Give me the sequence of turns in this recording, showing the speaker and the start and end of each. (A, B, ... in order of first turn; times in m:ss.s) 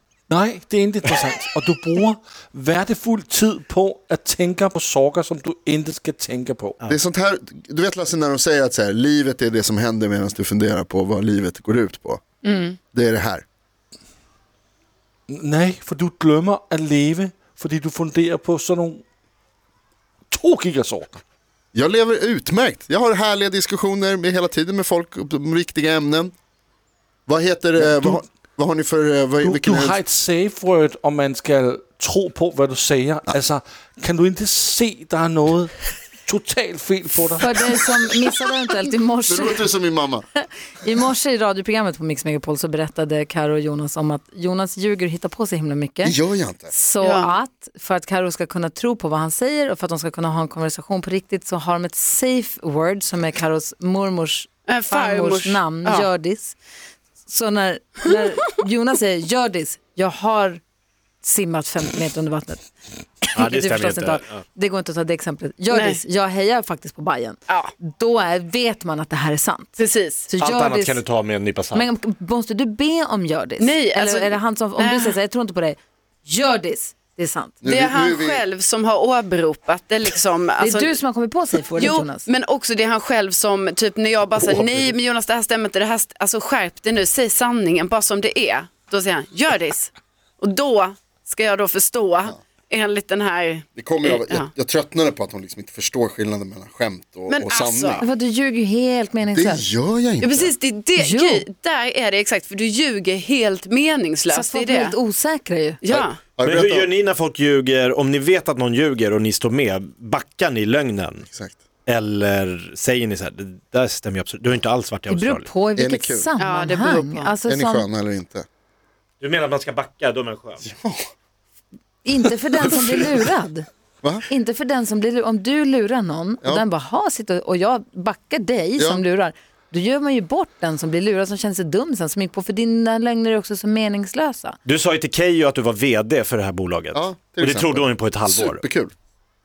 0:00.3-0:06.8 A
0:06.9-0:12.2 B
0:12.4-0:12.8 C
0:12.9-0:13.4 B
0:15.3-0:19.0 A
0:20.3-0:21.2 A
0:21.7-0:26.3 B
0:27.3-0:30.0 B
0:27.8-0:28.2 A
0:29.4-0:37.8 A
0:37.4-0:39.7 D
0:39.3-0:40.2 B
0:40.4-0:46.2 D
0:46.0-0:46.7 B
0:46.7-0:56.6 D
0:47.0-0:47.3 C
0:54.7-0:56.1 C
0:57.3-1:00.6 D
1:01.2-1:02.6 D
1:03.2-1:11.0 D
1:03.3-1:04.4 E
1:05.7-1:06.0 C
1:07.5-1:07.7 C
1:09.8-1:10.3 C
1:10.4-1:11.9 E
1:11.7-1:17.6 D
1:13.6-1:15.2 C
1:17.6-1:18.4 B
1:17.6-1:21.0 C
1:20.6-1:22.3 D
1:21.8-1:34.5 C
1:24.4-1:25.0 E
1:33.8-1:38.1 B
1:37.3-1:38.0 C
1:38.0-1:39.6 D
1:39.3-1:40.5 B
1:40.2-1:44.9 C
1:41.0-1:41.4 D
1:44.3-1:45.8 D
1:45.8-1:46.2 C
1:45.9-1:46.9 B
1:46.4-1:51.2 E
1:51.2-1:51.6 B
1:51.9-1:55.5 E
1:55.1-1:57.9 D
1:55.8-1:56.3 B
1:56.4-1:57.3 C
1:57.4-1:58.5 B
1:59.2-2:00.6 E
2:00.6-2:01.0 B
2:02.0-2:03.7 D
2:04.3-2:14.6 D
2:08.8-2:09.0 B
2:14.7-2:18.6 E
2:16.9-2:18.9 B